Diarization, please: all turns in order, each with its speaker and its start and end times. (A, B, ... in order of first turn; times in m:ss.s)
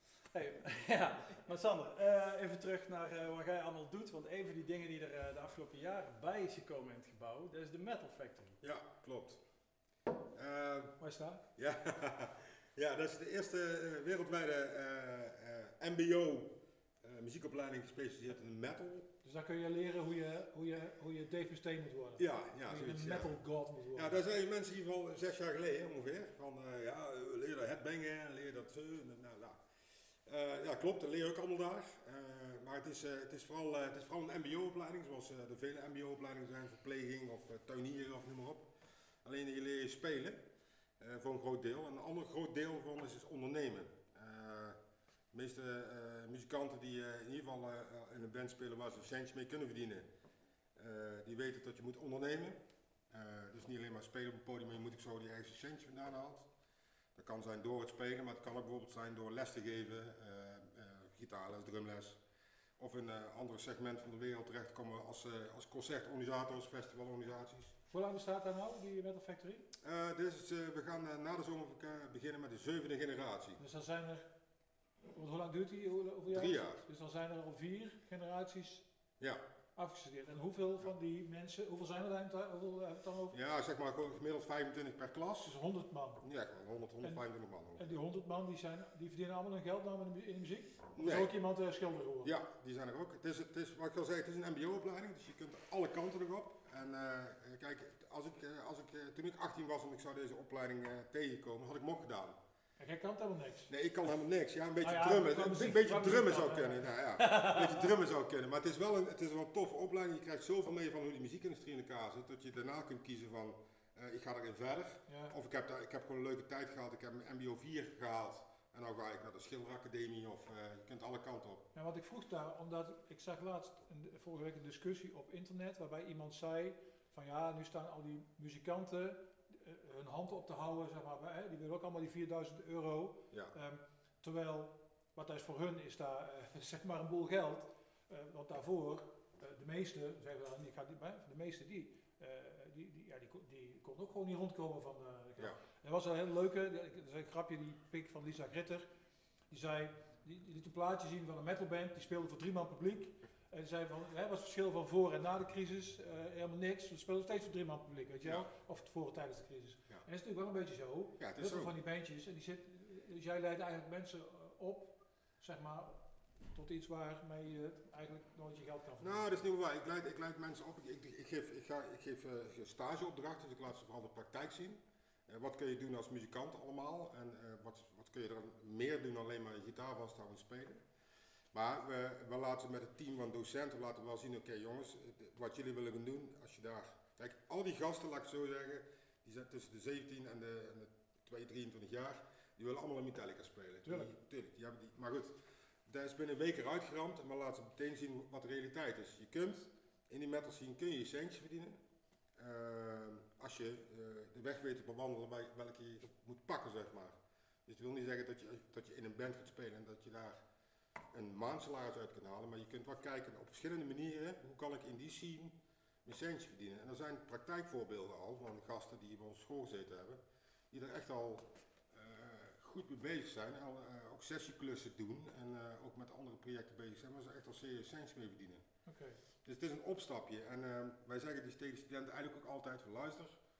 0:00.3-0:08.6 A
0:08.6-0:09.4 B
0:10.3-0:11.0 B
0:11.0-0:11.4 C
0:11.6-0:19.1 B
0:19.2-0:24.2 C
0:22.2-0:23.4 B
0:23.9-0:29.6 B
0:30.2-0:38.7 B
0:39.2-0:40.4 B
0:41.0-0:44.8 B
0:45.3-0:50.1 B
0:50.8-0:52.6 B
0:53.1-0:56.5 B
0:57.1-1:02.2 B
1:02.8-1:07.7 B
1:07.9-1:09.6 C
1:09.8-1:13.6 B
1:13.6-1:14.3 C
1:15.1-1:18.9 C
1:16.3-1:16.8 B
1:19.8-1:23.4 C
1:23.3-1:25.5 B
1:25.4-1:26.2 C
1:26.2-1:27.9 B
1:27.8-1:32.3 C
1:30.9-1:31.4 B
1:32.2-1:42.4 B
1:42.8-1:43.7 C
1:43.7-2:01.7 B
1:44.8-1:46.9 C
1:47.2-1:47.8 A
1:55.1-1:55.3 C
2:01.7-2:28.9 C
2:29.5-2:46.0 C
2:38.2-2:38.5 B
2:41.2-2:41.7 B
2:46.5-2:49.3 C
2:49.0-3:00.8 B
3:01.5-3:21.8 B
3:13.8-3:14.1 C
3:22.4-3:30.4 B
3:31.1-3:48.6 B
3:48.9-3:49.2 C
3:49.4-3:53.4 B